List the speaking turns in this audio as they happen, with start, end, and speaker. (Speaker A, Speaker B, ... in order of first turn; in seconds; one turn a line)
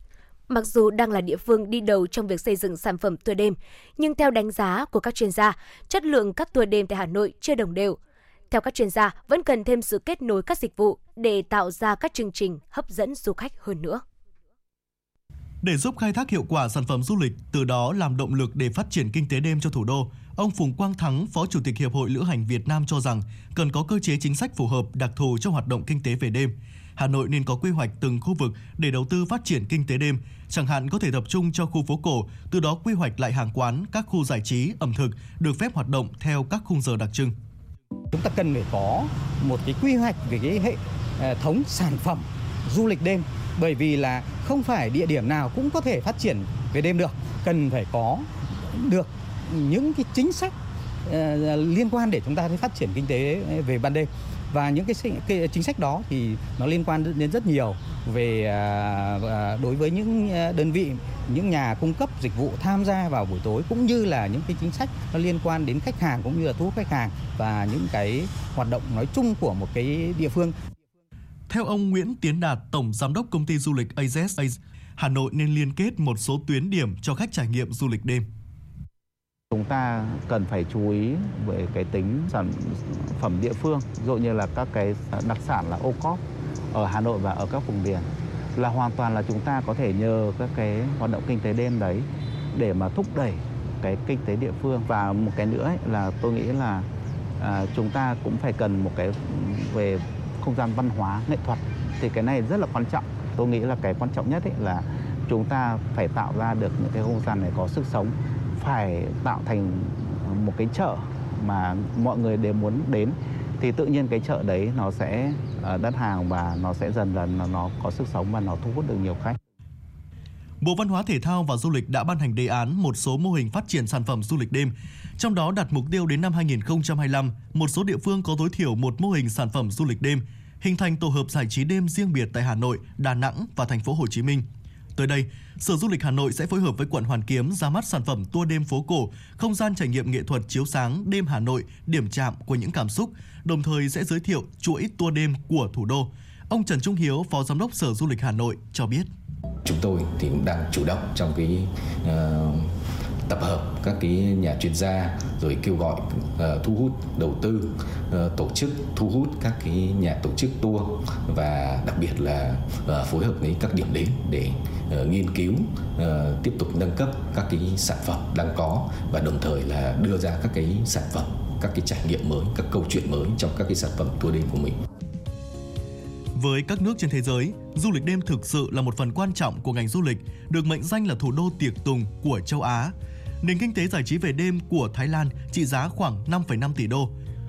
Speaker A: 0.5-8.0
Speaker A: 8.5-14.0
Speaker B: 15.6-37.3
Speaker C: 38.1-50.5
Speaker C: 51.1-70.5
Speaker B: 71.5-78.2
Speaker D: 79.5-86.2
Speaker D: 86.7-96.9
Speaker D: 97.4-119.4
Speaker B: 120.6-134.4
Speaker B: 134.9-149.1
Speaker E: 149.6-152.5
Speaker E: 153.3-174.7
Speaker B: 176.3-187.1